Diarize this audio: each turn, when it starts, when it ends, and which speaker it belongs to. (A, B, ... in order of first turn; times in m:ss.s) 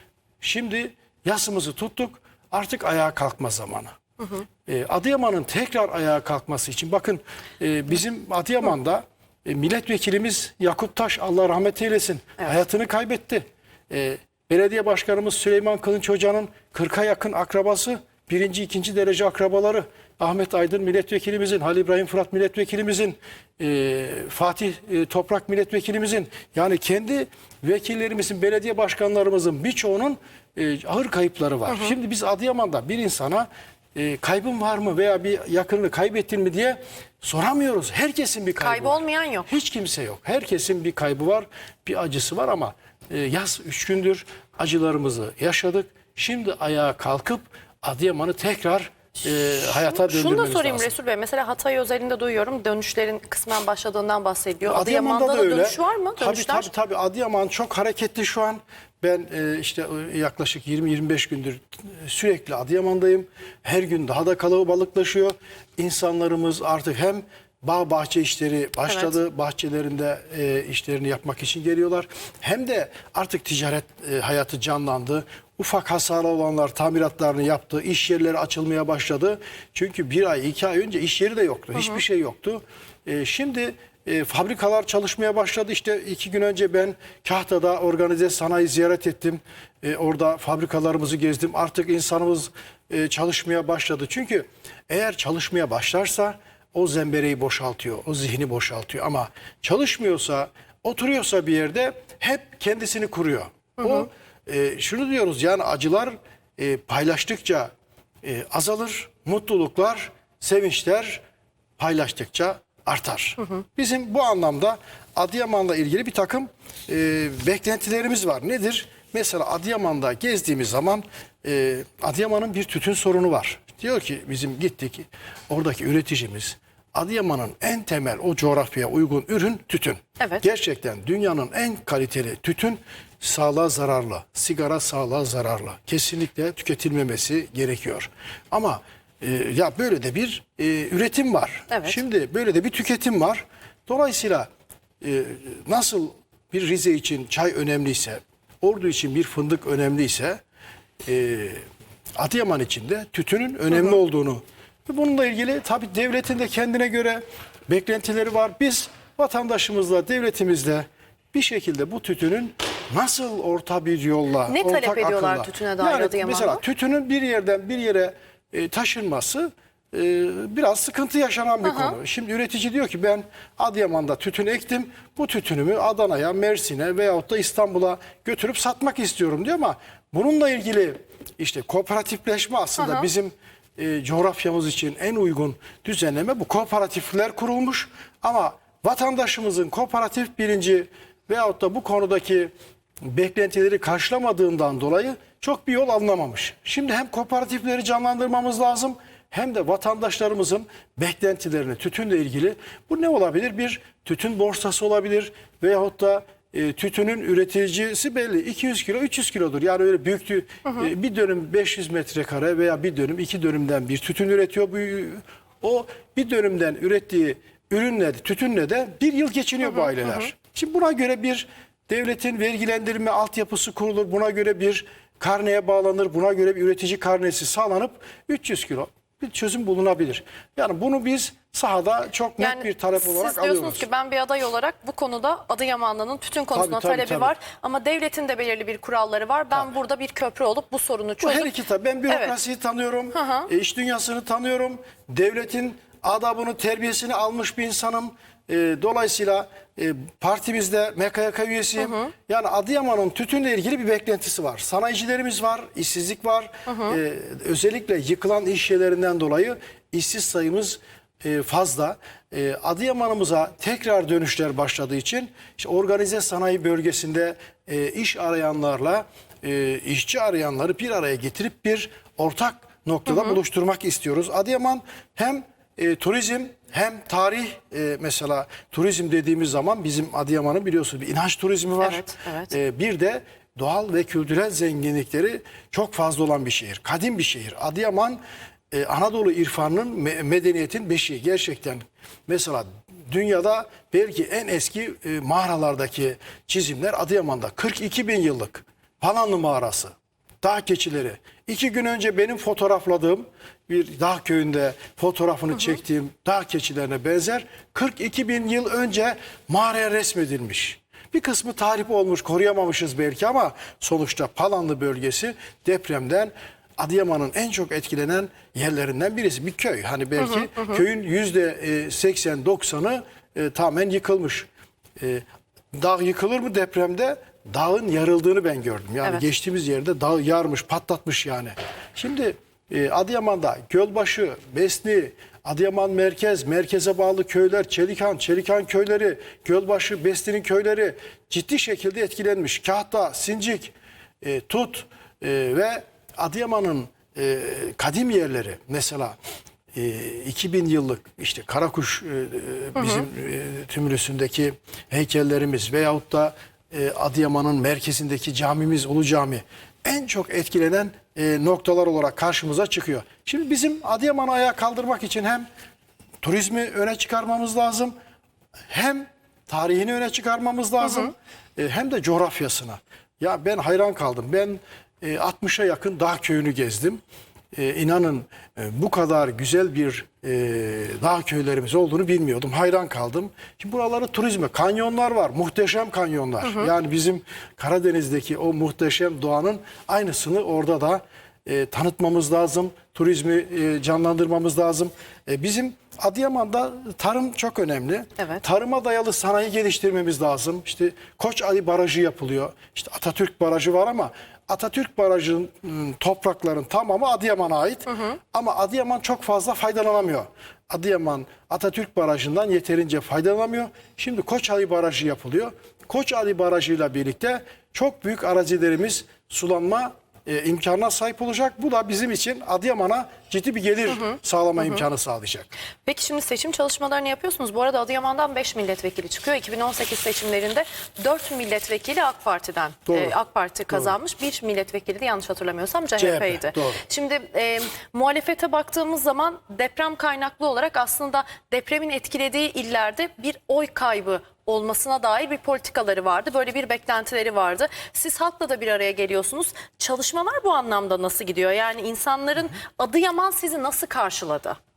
0:00.4-0:03.9 A
0:04.2-0:04.4 B
0:04.6-0:50.9 A
0:31.7-0:31.9 B
0:38.6-0:39.5 B
0:49.6-0:56.7 B
0:54.6-1:47.7 A
1:08.9-1:09.1 B
1:21.7-1:22.0 B
1:43.8-1:44.1 B
1:48.2-1:51.2 A
1:51.8-2:24.5 A
2:21.7-2:22.0 B
2:25.0-2:30.4 A
2:31.0-2:31.6 A
2:32.2-3:12.5 A
2:33.7-2:34.0 B
2:44.5-2:46.6 B
2:51.6-2:52.0 B
3:02.8-3:03.1 B
3:13.0-3:53.8 A
3:39.7-3:40.2 B
3:52.4-4:01.5 B
3:56.5-3:57.3 A
4:01.2-4:48.2 A
4:02.1-4:02.3 B
4:03.1-4:03.5 B
4:11.8-4:12.1 B
4:16.7-4:17.0 B
4:33.1-4:33.4 B
4:41.8-4:42.5 B
4:48.7-5:24.5 A
5:20.2-5:20.8 B
5:25.0-5:49.2 A
5:49.7-6:05.4 A
5:52.8-5:53.0 B
6:06.2-6:07.9 A
6:08.7-6:17.0 A
6:10.8-6:11.1 B
6:17.5-7:05.5 A
6:47.9-6:48.2 B
7:03.9-7:04.8 B
7:05.8-7:34.6 B
7:12.9-7:13.1 A
7:13.7-7:13.9 A
7:16.0-7:16.8 A